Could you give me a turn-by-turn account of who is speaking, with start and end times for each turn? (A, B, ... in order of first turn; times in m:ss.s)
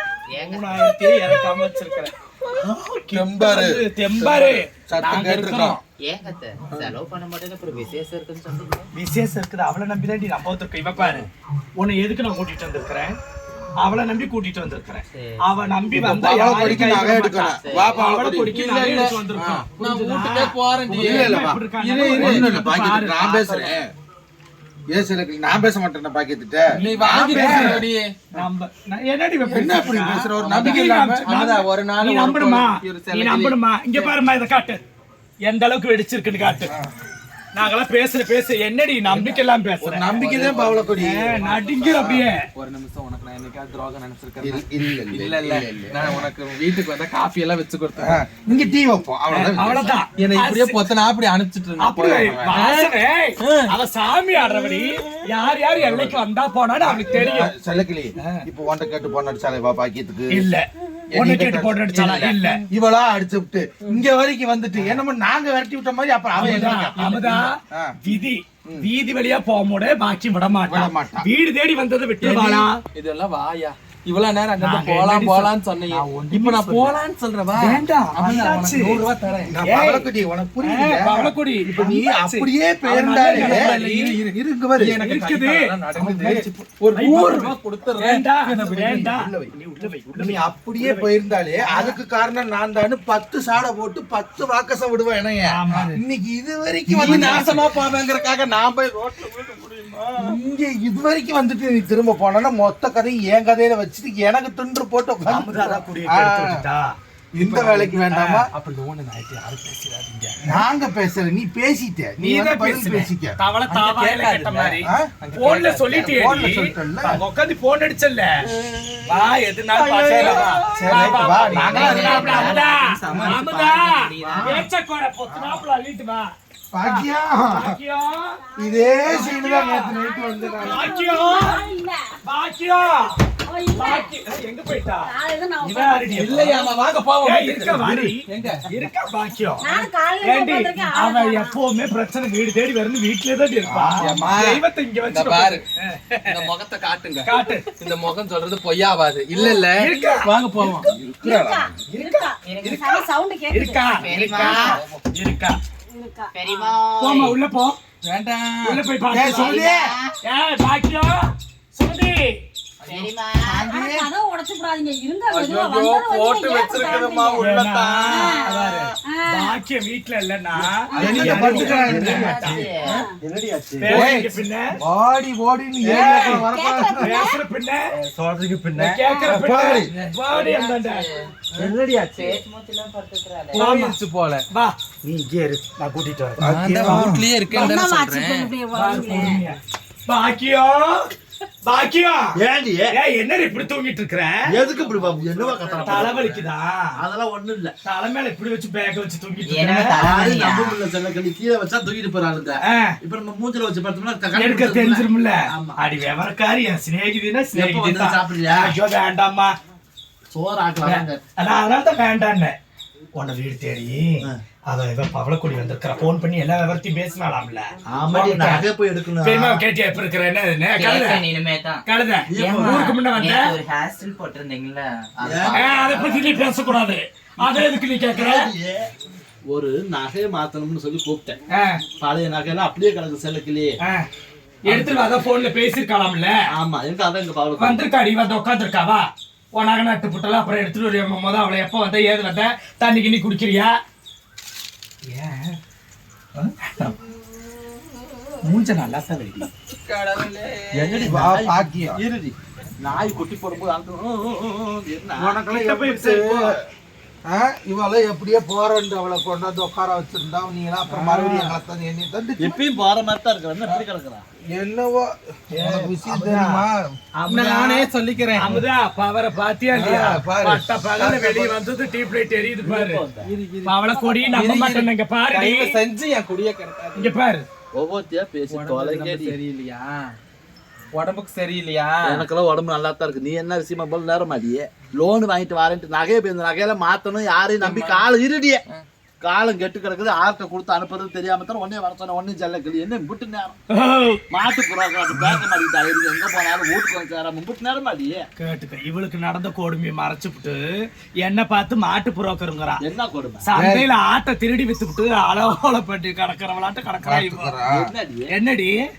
0:00.3-0:00.8 A
0:00.3-0:05.8 B
0:03.1-0:05.8 C
0:05.0-0:05.3 A
0:06.0-0:08.9 A
0:06.7-0:06.9 C
0:08.9-0:13.2 B
0:13.8-0:23.5 B
0:15.1-0:15.4 A
0:15.9-0:18.5 C
0:17.6-0:18.0 A
0:17.8-0:22.5 D
0:20.9-0:21.6 C
0:22.2-0:23.9 C
0:24.9-0:27.8 C
0:26.8-0:27.8 B
0:26.8-0:28.1 D
0:28.4-0:34.8 B
0:29.5-0:31.2 C
0:30.4-0:34.2 D
0:35.4-0:36.7 B
0:36.6-0:36.9 C
0:37.6-0:40.2 B
0:39.1-0:39.4 D
0:39.8-0:41.4 C
0:40.2-0:48.2 D
0:41.0-0:42.4 B
0:44.4-0:46.2 C
0:48.0-0:50.0 C
0:49.3-0:50.8 B
0:50.2-0:53.7 D
0:51.8-0:57.5 B
0:52.2-0:52.6 C
0:56.8-1:00.4 C
1:00.3-1:02.6 B
1:01.1-1:07.9 C
1:06.4-1:12.8 B
1:06.6-1:07.4 E
1:10.7-1:11.3 C
1:12.2-1:19.5 D
1:14.6-1:17.0 B
1:17.6-1:19.0 B
1:19.5-1:23.7 C
1:19.6-1:20.1 B
1:20.6-1:24.2 B
1:23.3-1:28.2 D
1:24.4-1:25.0 C
1:25.0-1:26.3 B
1:26.0-1:26.4 C
1:26.9-1:31.1 B
1:28.4-1:29.5 C
1:30.1-1:37.8 C
1:31.6-1:32.0 B
1:35.5-1:36.0 B
1:36.9-1:40.1 D
1:36.9-1:37.6 B
1:40.2-1:46.6 C
1:45.2-1:46.9 B
1:47.3-1:48.5 C
1:47.4-1:50.5 D
1:48.1-1:48.4 B
1:50.4-1:53.4 C
1:52.2-1:58.4 B
1:53.7-1:56.4 D
1:54.8-1:55.1 C
1:55.9-1:57.2 C
1:59.1-2:08.4 B
1:59.8-2:02.6 C
1:59.8-2:02.2 D
2:01.1-2:04.6 A
2:03.1-2:03.4 C
2:04.2-2:04.7 C
2:05.3-2:05.6 C
2:06.7-2:07.8 C
2:08.5-2:12.2 F
2:08.6-2:10.9 C
2:09.0-2:09.9 B
2:10.6-2:11.6 B
2:12.2-2:13.2 B
2:13.4-2:14.1 F
2:13.7-2:16.6 B
2:15.0-2:16.7 F
2:16.1-2:18.6 D
2:17.2-2:26.5 B
2:19.6-2:21.6 F
2:23.7-2:24.6 C
2:24.0-2:24.4 D
2:25.1-2:25.6 D
2:26.2-2:30.8 D
2:27.2-2:27.6 B
2:29.7-2:30.7 B
2:29.9-2:30.3 F
2:30.2-2:31.7 C
2:31.2-2:34.1 F
2:31.9-2:32.3 B
2:32.5-2:33.0 A
2:33.5-2:35.6 B
2:33.9-2:34.8 A
2:34.3-2:35.0 D
2:35.9-2:36.7 F
2:36.3-2:37.2 A
2:36.9-2:37.4 E
2:37.0-2:37.8 B
2:38.0-2:38.8 D
2:38.6-2:39.6 B
2:39.1-2:39.8 C
2:39.4-2:40.1 A
2:40.2-2:42.4 B
2:42.8-2:43.1 D
2:42.8-2:43.7 A
2:43.4-2:44.1 C
2:43.6-2:49.6 F
2:45.3-2:48.4 D
2:47.4-2:52.6 B
2:50.9-2:52.1 D
2:50.9-2:53.0 A
2:51.0-2:52.7 C
2:52.4-2:53.2 F
2:53.2-2:54.1 E
2:53.8-2:54.8 B
2:53.9-2:57.2 C
2:55.8-2:56.4 B
2:55.9-2:57.4 F
2:57.0-2:57.8 B
2:58.1-2:58.8 E
2:58.7-3:01.0 B
2:59.0-2:59.4 F
2:59.3-2:59.9 C
2:59.9-3:01.3 D
3:01.6-3:02.4 E
3:02.1-3:03.7 A
3:03.5-3:04.4 D
3:03.5-3:04.0 B
3:04.5-3:07.1 B
3:06.4-3:07.2 C
3:06.4-3:08.5 D
3:07.5-3:09.4 F
3:08.7-3:11.1 B
3:11.7-3:12.4 B
3:12.4-3:13.0 E
3:12.9-3:14.4 B
3:14.5-3:16.3 E
3:14.7-3:16.5 D
3:15.8-3:16.9 B
3:17.0-3:17.7 E
3:17.8-3:20.0 B
3:19.4-3:20.8 A
3:19.9-3:25.8 E
3:22.6-3:22.9 B
3:24.4-3:29.5 B
3:27.5-3:28.7 E
3:30.3-3:31.2 E
3:30.8-3:32.6 B
3:33.2-3:38.7 B
3:37.9-3:39.6 E
3:39.2-3:41.2 B
3:40.8-3:41.8 A
3:41.8-3:43.5 B
3:42.3-3:43.0 E
3:42.4-3:46.1 A
3:45.2-3:46.4 E
3:45.5-3:48.5 B
3:48.1-3:48.9 E
3:49.5-3:51.4 E
3:51.5-3:51.8 B
3:52.0-3:53.8 E
3:54.6-3:56.3 B
3:54.7-3:54.9 E
3:56.5-3:57.8 E
3:57.6-4:03.7 B
4:05.1-4:05.6 B
4:06.4-4:07.0 B
4:08.4-4:09.5 B
4:09.7-4:11.2 D
4:10.7-4:15.4 E
4:11.0-4:12.0 C
4:15.2-4:16.6 C
4:15.4-4:16.5 B
4:17.3-4:22.6 C
4:20.9-4:21.5 E
4:22.4-4:24.2 E
4:24.5-4:26.8 C
4:25.5-4:26.6 B
4:27.2-4:33.0 B
4:27.3-4:28.6 D
4:29.7-4:31.5 C
4:32.6-4:33.3 E
4:33.2-4:37.2 D
4:33.6-4:35.8 B
4:37.0-4:37.4 B
4:37.7-4:39.3 E
4:38.5-4:40.1 D
4:40.9-4:42.2 D
4:42.0-4:48.6 E
4:47.6-4:48.0 D
4:49.2-4:53.6 E
4:53.7-4:54.2 B
4:54.3-4:58.2 E
4:58.4-5:00.6 B
5:01.2-5:02.8 B
5:02.8-5:03.4 E
5:03.4-5:07.6 B
5:03.5-5:03.9 C
5:07.0-5:07.9 C
5:07.7-5:08.3 E
5:08.3-5:08.8 B